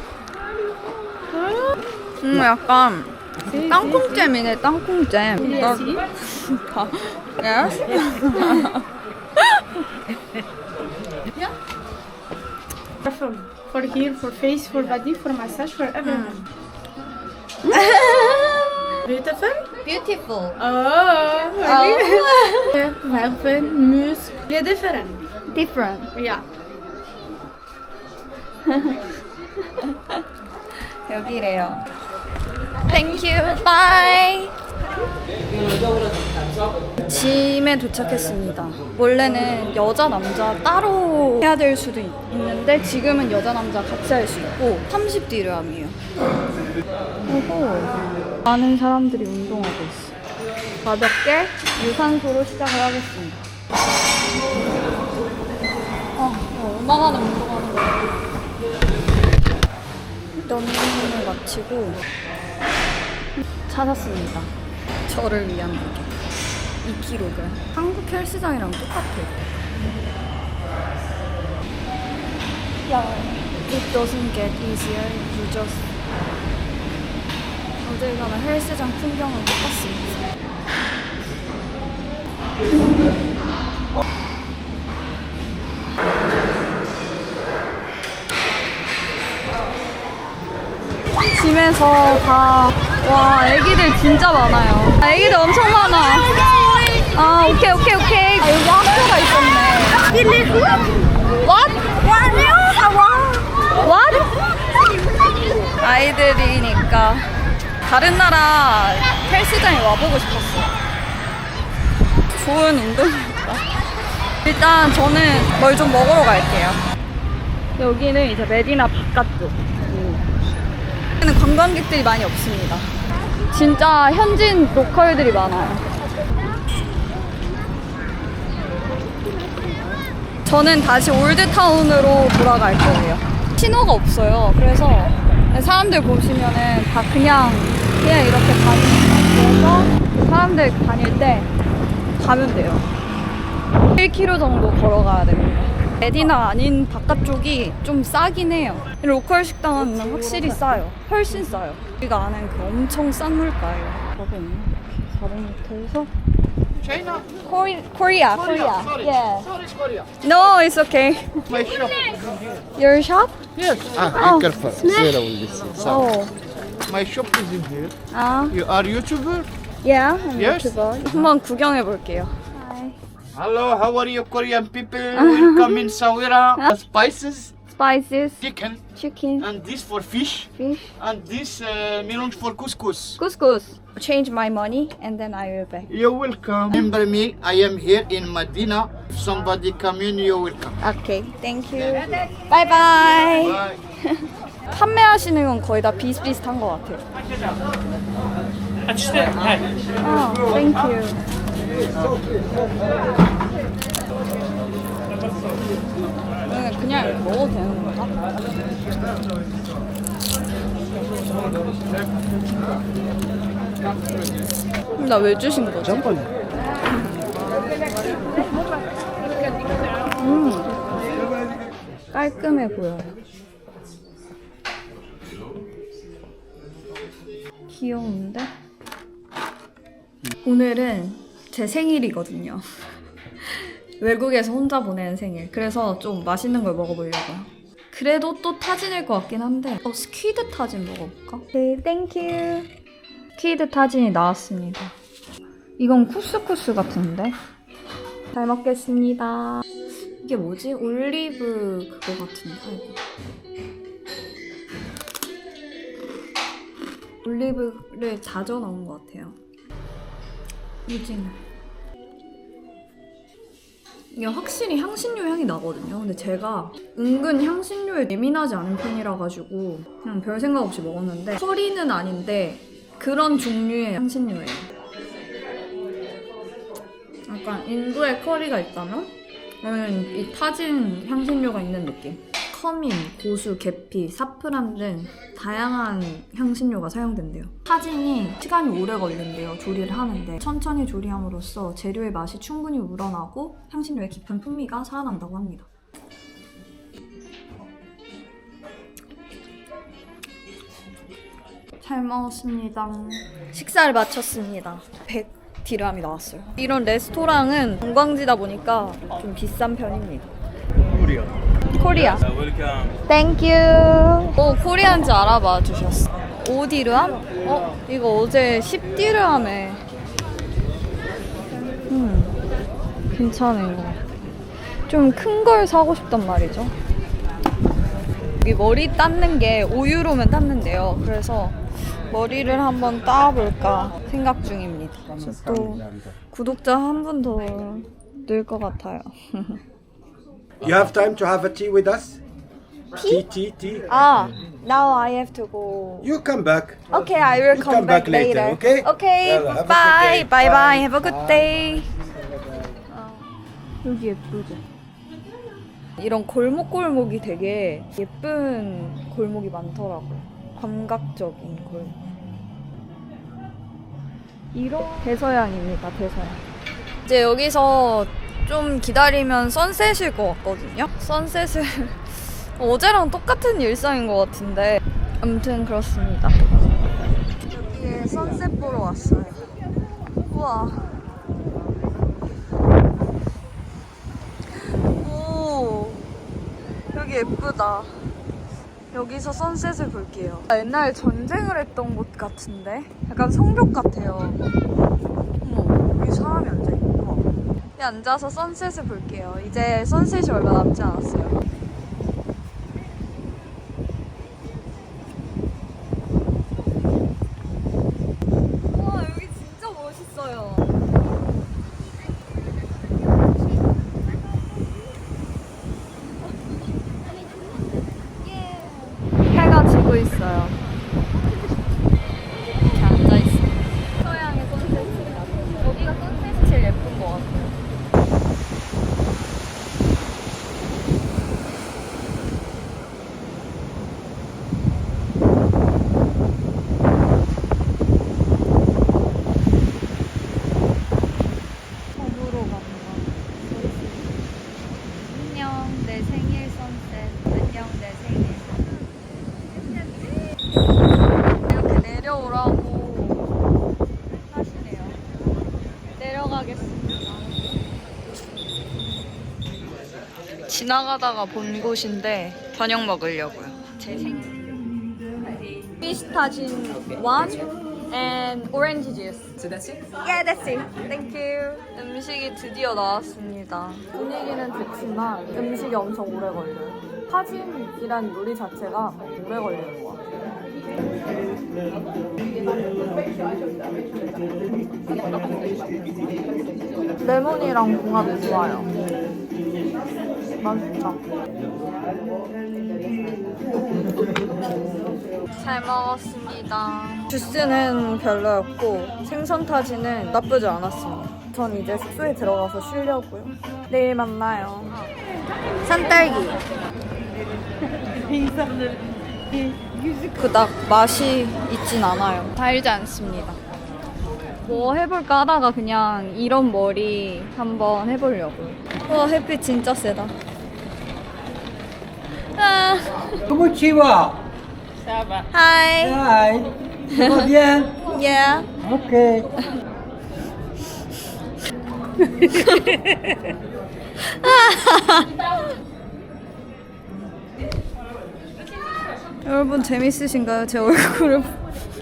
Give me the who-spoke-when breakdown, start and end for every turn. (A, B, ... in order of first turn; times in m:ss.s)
0:01.3-0:01.7 A
0:02.2-0:08.8 B
0:03.5-0:04.3 A
0:05.4-0:06.1 A
0:09.4-0:09.7 B
0:13.0-0:16.4 A
0:16.0-0:16.5 B
0:17.6-0:18.9 B
0:19.0-0:19.7 A
0:19.8-0:20.6 B
0:20.6-0:25.2 A
0:21.6-0:22.8 B
0:25.5-0:26.1 B
0:26.1-0:26.5 A
0:28.6-0:29.0 B
0:29.8-0:30.2 B
0:31.0-0:31.9 B
0:32.8-0:34.6 B
0:37.0-0:46.0 B
0:47.2-0:50.2 B
0:50.8-0:53.4 B
0:56.2-0:58.3 B
1:00.3-1:02.0 B
1:03.4-1:04.5 B
1:05.1-1:06.2 B
1:06.8-1:09.5 B
1:12.8-1:15.9 B
1:17.8-1:20.2 B
1:31.3-1:36.4 B
1:36.9-1:40.5 B
1:41.4-1:44.3 B
1:45.8-1:47.3 B
1:47.8-1:50.8 B
1:52.3-1:53.6 B
1:54.4-1:56.8 B
1:57.8-2:00.2 B
2:01.2-2:02.9 B
2:03.5-2:05.8 B
2:10.4-2:21.5 B
2:22.2-2:22.9 B
2:24.0-2:36.1 B
2:36.8-2:37.2 C
2:37.4-2:39.5 B
2:38.5-2:40.0 C
2:40.2-2:41.5 B
2:41.5-2:42.4 C
2:42.7-2:43.4 B
2:43.7-2:46.0 C
2:44.1-2:46.3 B
2:46.9-2:47.9 C
2:48.1-2:48.6 B
2:48.5-2:49.5 C
2:49.8-2:53.0 B
2:50.4-2:50.7 C
2:53.3-2:57.5 C
2:55.1-2:56.0 B
2:57.7-2:59.5 B
2:58.4-2:58.8 C
2:59.4-3:03.2 C
3:00.6-3:00.9 B
3:03.2-3:05.9 B
3:05.9-3:10.7 C
3:10.8-3:17.0 B
3:13.4-3:13.7 C
3:20.0-3:21.2 B
3:26.5-3:28.1 B
3:35.0-3:36.3 B
3:40.2-3:40.7 B
3:42.1-3:43.1 B
3:47.7-3:48.5 B
3:50.4-3:52.6 B
3:53.4-4:02.7 B
4:03.3-4:04.9 B
4:05.8-4:07.4 B
4:08.3-4:09.7 B
4:10.2-4:13.0 B
4:17.2-4:19.4 B
4:20.8-4:21.4 B
4:24.1-4:34.7 B
4:37.3-4:55.7 B
5:01.8-5:10.3 B
5:11.7-5:12.3 B
5:13.1-5:19.8 B
5:21.9-5:22.4 B
5:23.1-5:24.0 B
5:24.9-5:26.7 B
5:28.4-5:39.6 B
5:40.6-5:42.2 D
5:43.0-5:43.3 B
5:43.0-5:43.8 D
5:43.9-5:46.1 B
5:46.0-5:46.8 D
5:46.9-5:51.9 B
5:47.5-5:50.9 D
5:52.9-5:53.3 B
5:53.8-5:54.6 B
5:56.0-6:02.0 B
6:04.5-6:06.4 B
6:07.0-6:16.4 B
6:17.5-6:19.5 B
6:20.3-6:20.9 B
6:24.5-6:26.1 B
6:26.9-6:28.1 B
6:28.9-6:34.4 B
6:35.4-6:41.4 B
6:48.7-6:50.7 B
6:58.2-7:00.6 B
7:02.6-7:07.6 B
7:22.0-7:24.1 B
7:25.0-7:28.8 B
7:31.4-7:33.3 B
7:34.3-7:35.0 B
7:36.0-7:37.4 B
7:40.5-7:44.4 B
7:45.8-8:00.0 B
8:07.0-8:08.7 B
8:10.4-8:11.0 B
8:15.3-8:24.9 B
8:25.6-8:26.4 B
8:30.1-8:33.4 B
8:34.4-8:40.2 B
8:42.2-8:43.2 B
8:43.3-8:44.2 E
8:45.3-8:46.1 B
8:45.8-8:47.7 E
8:46.9-8:48.5 B
8:48.6-8:49.2 E
8:52.2-8:52.7 B
8:54.0-8:55.2 B
8:59.2-9:01.4 B